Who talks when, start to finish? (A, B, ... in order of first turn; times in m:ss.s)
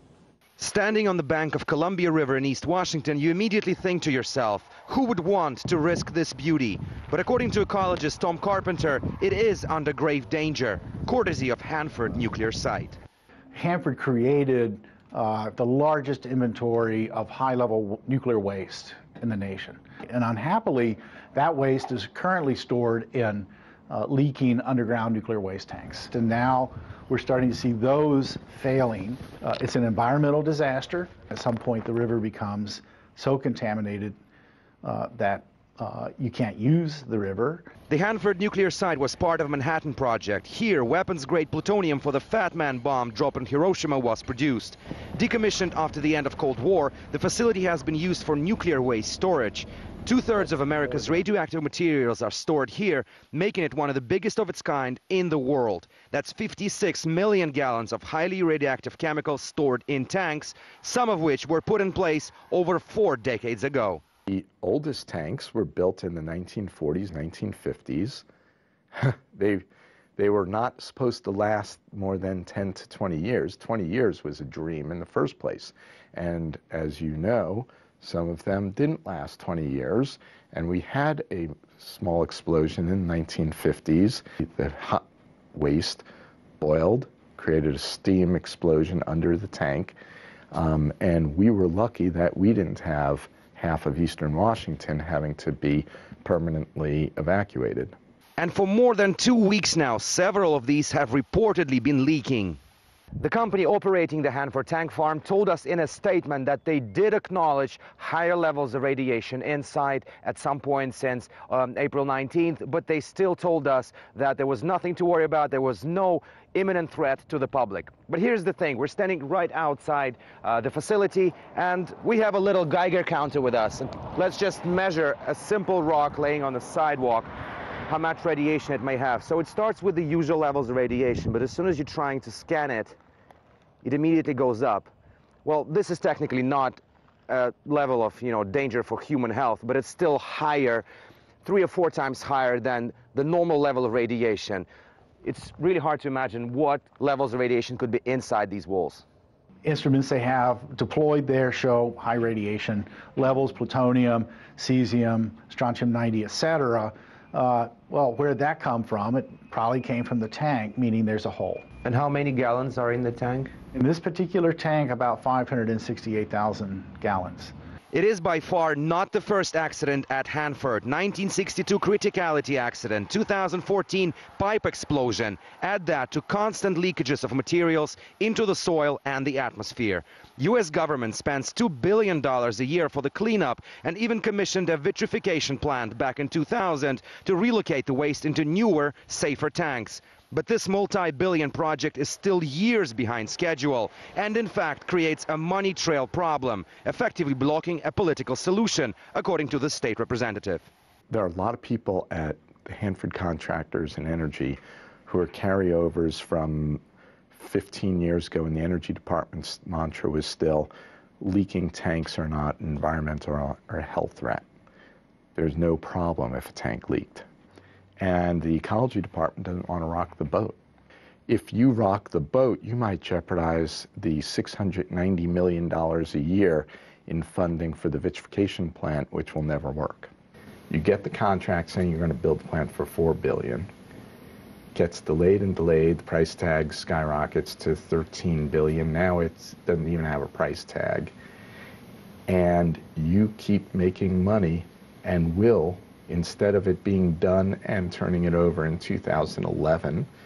0:00.6-0:13.0 A
0:13.5-0:34.2 B
0:34.8-0:37.7 B
0:37.9-1:04.0 A
1:04.3-1:08.2 C
1:08.9-1:09.6 C
1:10.2-1:26.0 C
1:26.6-1:30.0 C
1:30.5-1:38.0 C
1:38.4-1:42.6 A
1:43.2-2:07.3 A
2:07.9-2:13.0 A
2:13.8-2:14.9 A
2:15.4-2:20.9 A
2:21.4-2:24.7 A
2:25.2-2:29.0 A
2:29.6-2:41.7 B
2:41.8-2:43.5 A
2:43.7-2:47.5 B
2:47.9-3:20.7 A
3:21.1-3:26.8 C
3:27.3-3:34.4 C
3:35.4-3:37.3 C
3:38.0-3:40.6 C
3:41.3-3:50.1 C
3:50.7-3:53.7 C
3:54.7-4:01.1 C
4:02.3-4:10.1 C